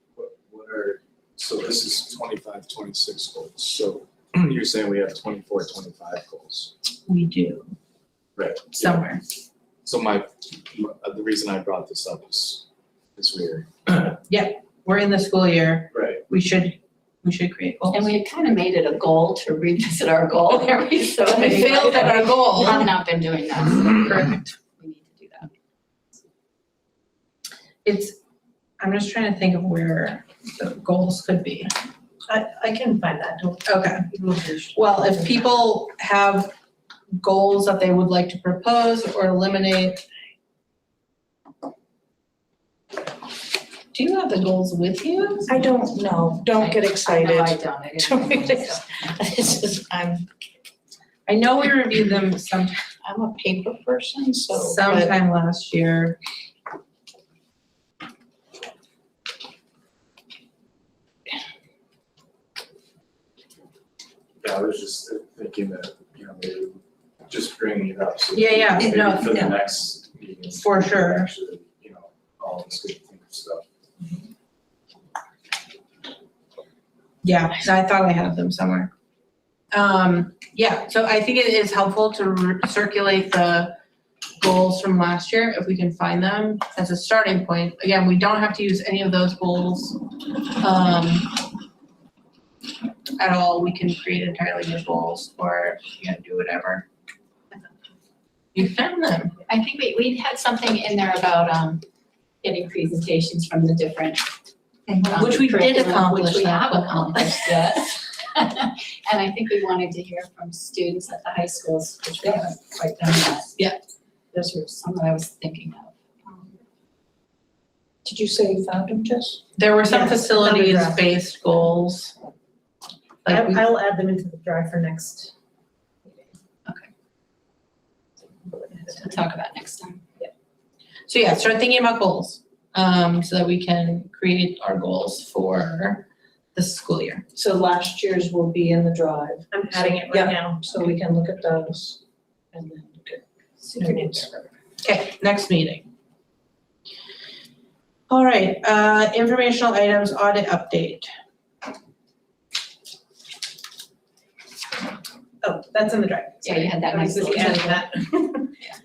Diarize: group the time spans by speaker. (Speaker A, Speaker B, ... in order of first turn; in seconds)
Speaker A: 0.1-6.7, 8.3-9.0, 9.8-14.1, 15.9-16.2, 64.4-73.6
Speaker B: 7.0-7.7, 8.7-9.2, 14.3-18.1, 21.2-22.9, 23.8-24.5, 27.8-28.2, 28.8-31.7, 33.7-34.0, 34.7-36.5, 37.2-40.0, 43.9-45.6, 51.3-52.8, 54.5-56.2, 68.3-69.5, 70.6-71.3, 77.2-78.9, 79.7-83.7, 84.4-91.4, 93.2-96.8, 98.5-99.4, 105.2-107.6, 119.5-122.1, 123.2-123.6, 131.1-137.2, 144.8-145.9, 148.1-151.1
Speaker C: 17.9-25.5, 46.6-49.0, 99.5-101.8, 102.4-104.3, 104.9-113.6, 114.3-116.4, 128.8-130.0, 156.4-157.9
Speaker D: 32.3-34.7, 119.8-121.0, 123.3-125.3, 139.5-140.7, 155.4-158.5
Speaker E: 45.5-50.2, 53.0-55.1, 104.9-105.3, 118.0-119.4, 137.3-142.0, 142.5-144.5